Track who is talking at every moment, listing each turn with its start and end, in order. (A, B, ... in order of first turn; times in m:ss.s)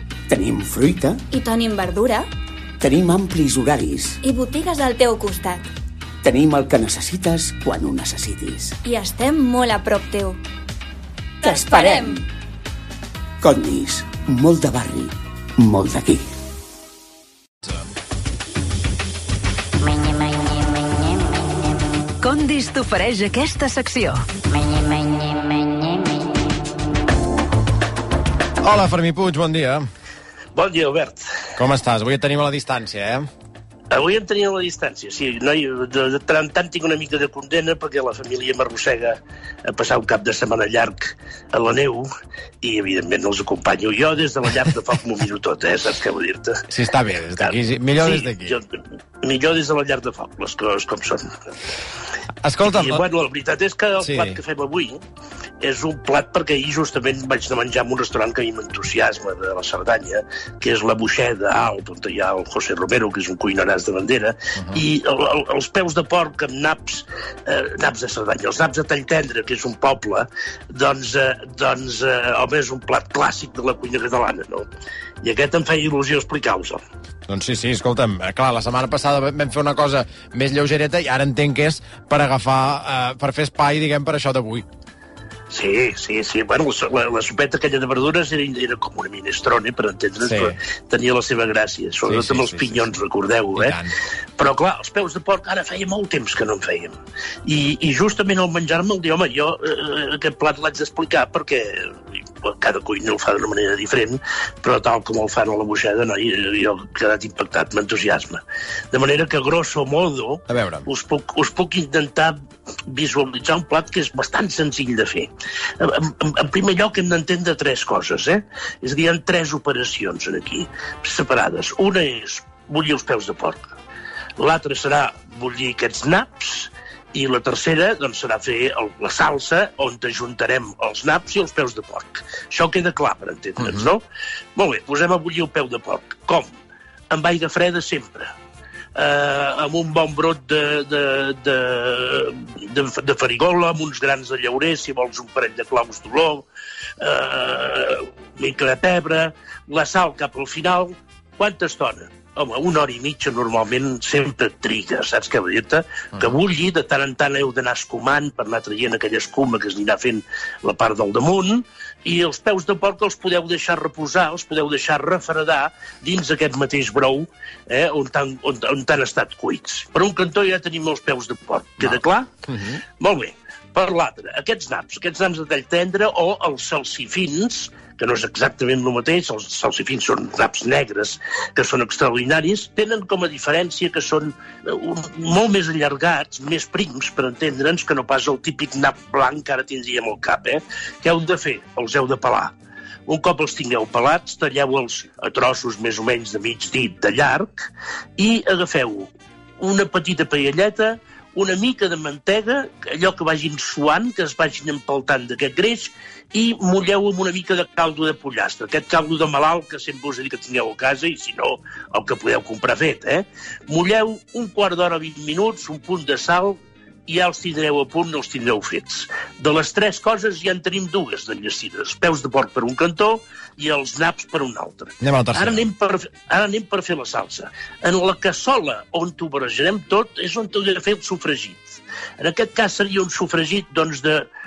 0:00.3-0:01.2 A
0:01.3-0:02.3 B
0:02.8-0:04.2 A
0:04.2-0:05.7 B
0:06.2-0:08.8 A
0:08.8-0:10.4 B
0:11.4-0:12.2 B
0:11.4-0:12.2 A
0:13.4-0:16.2 A
0:22.2-0:24.2 C
0:28.6-0:29.8 D
0:30.6-0:31.3 E
0:31.6-0:33.3 D
0:33.9-0:42.1 E
0:42.6-0:46.6 E
0:46.7-0:48.6 D
0:47.4-0:51.5 E
0:52.4-0:53.0 D
0:52.6-0:55.0 E
0:54.0-0:54.4 D
0:55.6-1:14.7 E
1:04.6-1:04.8 D
1:15.2-1:16.8 E
1:17.3-1:24.7 D
1:25.5-1:33.8 E
1:30.2-1:30.6 D
1:32.1-1:33.0 D
1:33.6-1:34.0 D
1:34.4-1:37.0 E
1:37.5-1:52.4 E
1:50.5-1:50.9 D
1:52.9-2:03.8 E
2:04.4-2:14.0 E
2:13.6-2:13.9 D
2:14.6-2:16.5 E
2:17.1-2:18.3 E
2:19.0-2:26.5 E
2:27.0-2:52.3 E
2:51.8-2:52.8 D
2:53.0-3:12.6 E
3:13.1-3:17.7 E
3:18.2-3:54.3 E
3:45.0-3:45.6 D